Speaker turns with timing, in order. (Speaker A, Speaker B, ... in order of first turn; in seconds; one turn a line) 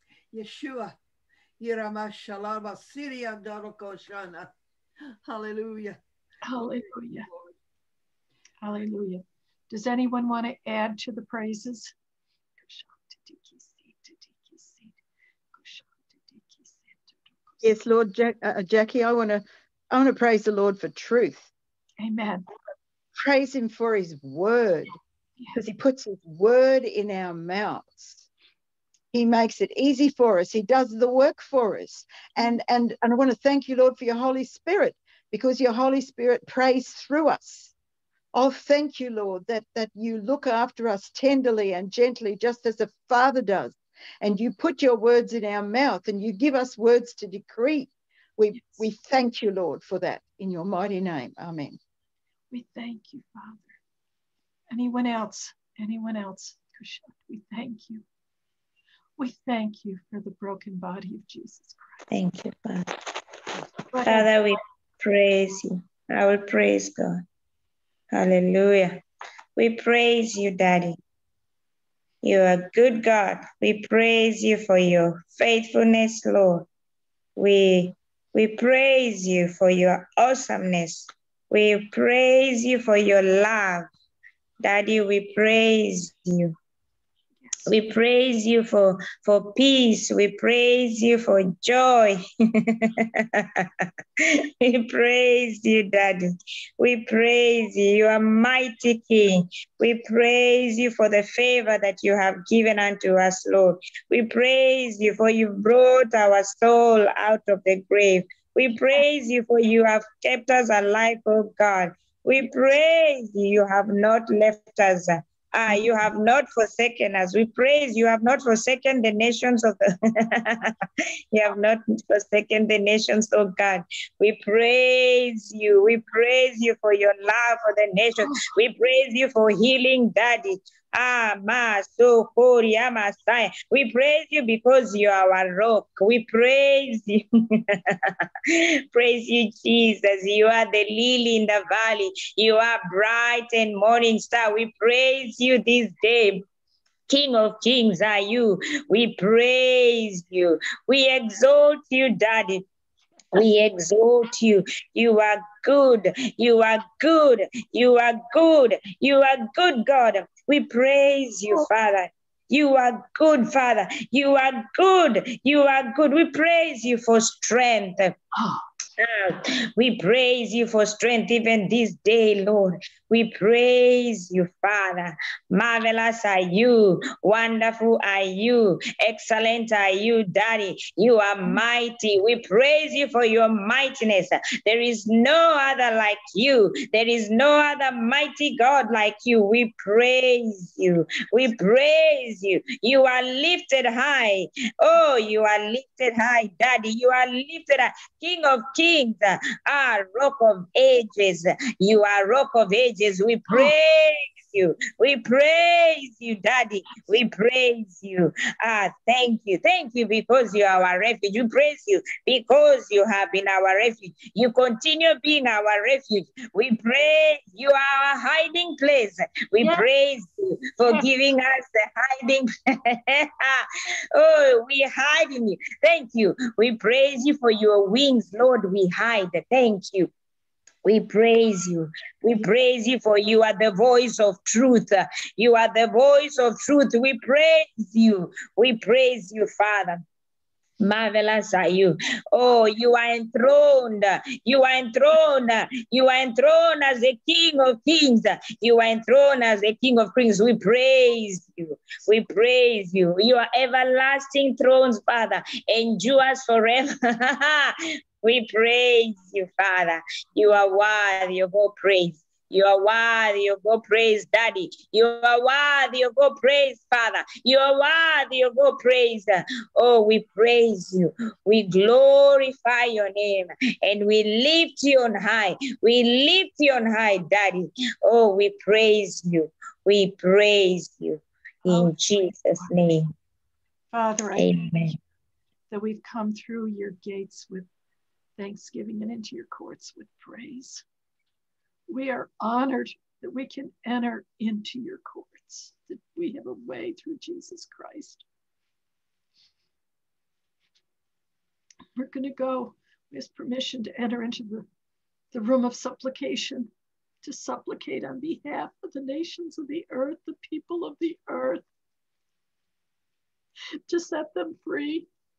Speaker A: 0.3-0.9
Speaker A: 1.6-4.5
Speaker A: 5.2-6.0
Speaker B: 6.4-7.3
Speaker B: 8.6-11.9
Speaker B: 12.6-15.0
Speaker B: 15.6-17.6
Speaker C: 17.6-21.5
Speaker B: 22.0-22.4
Speaker C: 23.2-24.9
Speaker C: 25.6-28.3
Speaker C: 29.1-37.7
Speaker C: 38.3-51.8
Speaker B: 52.5-53.7
Speaker B: 54.7-58.0
Speaker B: 59.2-62.0
Speaker D: 62.1-62.9
Speaker B: 63.9-64.4
Speaker D: 64.0-67.2
Speaker D: 68.1-69.0
Speaker D: 69.6-71.0
Speaker D: 72.2-76.7
Speaker D: 77.4-83.9
Speaker D: 84.6-86.5
Speaker B: 87.5-87.7
Speaker D: 87.7-93.7
Speaker D: 94.6-96.2
Speaker D: 96.8-120.7
Speaker D: 121.3-137.8
Speaker D: 138.9-146.4
Speaker D: 147.1-152.6
Speaker D: 153.3-168.2
Speaker B: 168.3-168.7
Speaker D: 169.0-230.1
Speaker B: 219.6-219.9
Speaker D: 230.8-240.0
Speaker D: 240.8-283.1
Speaker B: 281.7-281.9
Speaker B: 283.9-284.6
Speaker D: 284.4-285.0
Speaker B: 285.7-287.7
Speaker B: 288.4-290.8
Speaker B: 291.9-298.2
Speaker B: 302.0-304.7
Speaker B: 305.3-306.7
Speaker B: 307.2-311.6
Speaker B: 313.9-315.1